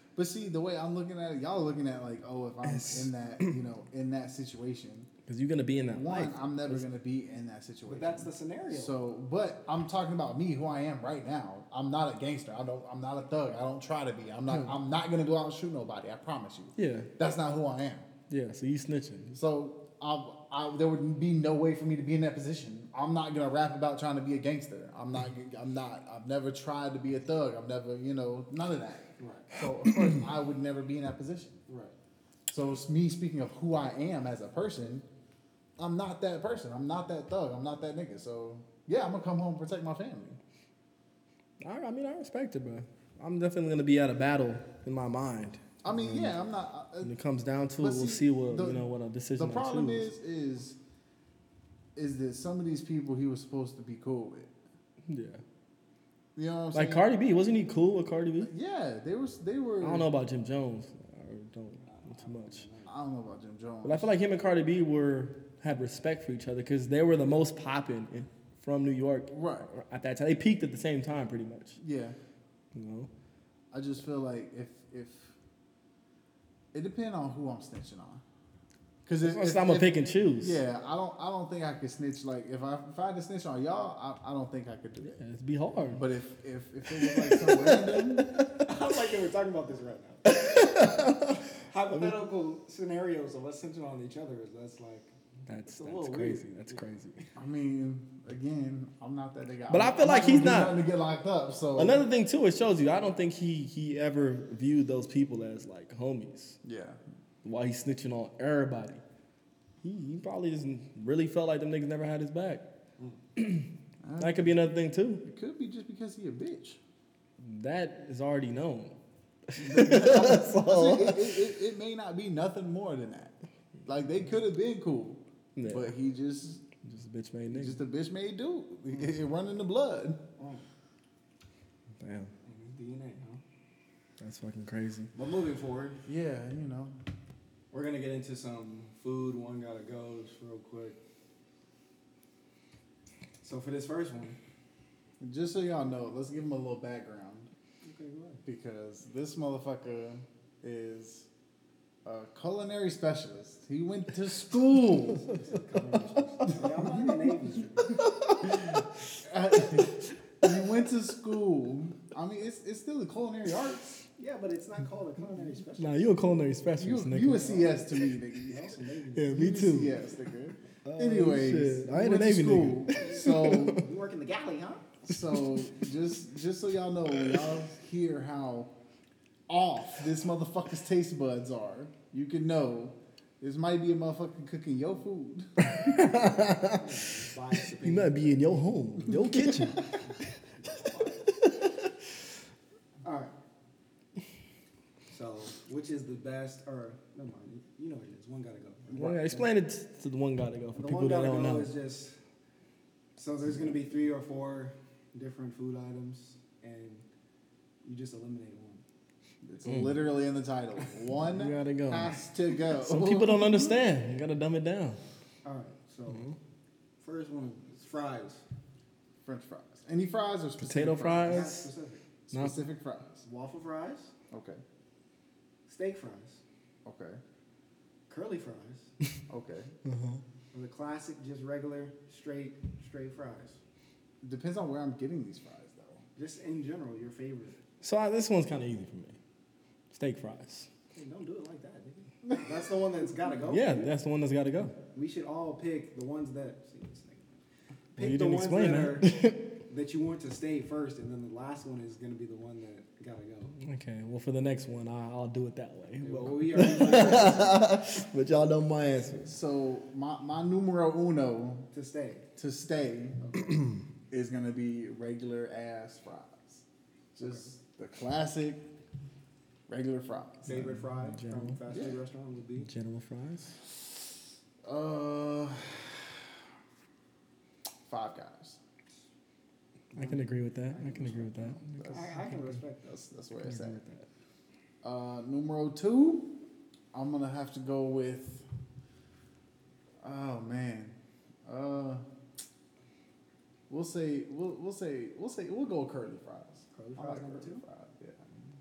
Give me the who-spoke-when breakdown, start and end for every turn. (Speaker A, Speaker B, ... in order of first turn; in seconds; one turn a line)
Speaker A: 0.2-5.1
Speaker B: 2.7-3.5
Speaker B: 5.3-6.8
Speaker A: 5.9-18.1
Speaker C: 7.9-8.9
Speaker B: 16.8-17.1
Speaker B: 18.3-19.4
Speaker A: 19.4-31.6
Speaker C: 29.2-29.5
Speaker C: 31.7-31.9
Speaker A: 32.5-35.1
Speaker A: 35.8-40.4
Speaker B: 41.6-46.4
Speaker A: 45.8-47.1
Speaker B: 47.0-50.1
Speaker A: 47.8-48.9
Speaker A: 49.4-50.8
Speaker A: 52.0-54.5
Speaker B: 55.1-55.4
Speaker A: 56.4-57.1
Speaker B: 56.7-58.5
Speaker A: 58.4-60.1
Speaker B: 59.8-62.6
Speaker C: 61.8-62.9
Speaker A: 62.9-64.1
Speaker B: 63.8-71.8
Speaker A: 69.3-69.7
Speaker A: 71.8-72.2
Speaker B: 72.8-73.1
Speaker A: 73.7-75.3
Speaker A: 76.7-78.2
Speaker A: 79.1-85.2
Speaker B: 79.2-80.6
Speaker B: 85.0-86.0
Speaker A: 85.9-88.3
Speaker B: 87.0-88.4
Speaker C: 88.7-90.3
Speaker B: 90.3-91.4
Speaker C: 91.7-95.1
Speaker B: 95.5-97.2
Speaker C: 95.7-96.8
Speaker A: 97.4-102.0
Speaker B: 99.7-100.8
Speaker B: 101.8-106.6
Speaker A: 106.6-107.0
Speaker B: 107.4-109.0
Speaker B: 109.8-112.6
Speaker B: 113.4-113.7
Speaker A: 114.0-114.5
Speaker B: 114.2-115.2
Speaker A: 115.2-116.8
Speaker B: 117.4-119.0
Speaker B: 119.5-121.4
Speaker A: 119.6-123.3
Speaker A: 123.9-126.6
Speaker B: 125.6-125.9
Speaker B: 126.8-127.8
Speaker A: 127.5-130.2
Speaker C: 130.4-130.6
Speaker B: 132.0-132.3
Speaker C: 132.4-133.4
Speaker B: 134.2-135.1
Speaker C: 135.1-136.0
Speaker A: 136.1-137.0
Speaker C: 137.7-141.0
Speaker C: 143.4-144.4
Speaker A: 145.2-147.5
Speaker C: 147.8-148.4
Speaker A: 148.5-151.3
Speaker A: 152.1-155.3
Speaker C: 155.2-158.0
Speaker A: 156.5-157.2
Speaker B: 158.3-158.7
Speaker A: 159.2-164.0
Speaker C: 164.2-166.2
Speaker B: 165.8-167.7
Speaker A: 166.8-168.6
Speaker C: 168.4-169.3
Speaker B: 169.2-170.0
Speaker A: 169.3-173.8
Speaker B: 170.8-173.8
Speaker C: 173.1-174.9
Speaker A: 175.1-178.7
Speaker A: 179.5-185.6
Speaker B: 185.6-186.9
Speaker C: 186.8-188.2
Speaker B: 187.8-189.9
Speaker C: 190.0-191.3
Speaker C: 193.0-193.3
Speaker C: 195.1-199.3
Speaker B: 198.9-201.7
Speaker A: 199.0-199.4
Speaker C: 200.8-202.2
Speaker C: 203.2-207.1
Speaker C: 207.8-208.8
Speaker A: 209.4-213.8
Speaker B: 209.7-210.0
Speaker B: 211.3-212.2
Speaker B: 212.7-215.0
Speaker C: 215.4-216.3
Speaker B: 216.1-216.4
Speaker C: 217.0-218.4
Speaker A: 219.2-221.5
Speaker B: 220.6-221.7
Speaker C: 221.2-222.1
Speaker A: 222.3-223.1
Speaker B: 222.3-222.6
Speaker C: 223.2-224.1
Speaker A: 224.3-224.6
Speaker C: 225.7-226.4
Speaker A: 226.8-227.2
Speaker C: 228.1-228.9
Speaker A: 229.3-229.7
Speaker B: 229.8-230.2
Speaker C: 230.5-233.6
Speaker A: 234.2-236.0
Speaker C: 236.2-237.6
Speaker B: 237.8-239.2
Speaker B: 239.9-240.7
Speaker C: 240.9-243.9
Speaker B: 243.5-244.7
Speaker C: 244.9-247.4
Speaker C: 247.9-249.1
Speaker B: 248.0-249.4
Speaker C: 249.7-253.6
Speaker B: 253.6-259.3
Speaker C: 256.0-257.7
Speaker A: 259.3-261.7
Speaker C: 261.7-262.3
Speaker A: 262.4-263.3
Speaker A: 264.1-266.6
Speaker A: 267.1-268.6
Speaker A: 269.7-270.5
Speaker C: 270.4-272.7
Speaker B: 270.5-271.6
Speaker A: 271.7-272.0
Speaker B: 272.6-273.6
Speaker A: 274.6-276.3
Speaker A: 277.9-278.6
Speaker C: 279.9-281.2
Speaker B: 280.0-282.5
Speaker A: 281.1-282.1
Speaker C: 281.9-283.0
Speaker A: 282.9-283.8
Speaker B: 283.4-284.1
Speaker A: 284.8-286.4
Speaker A: 286.9-288.4
Speaker A: 290.0-292.0
Speaker A: 293.7-298.4
Speaker C: 296.7-297.6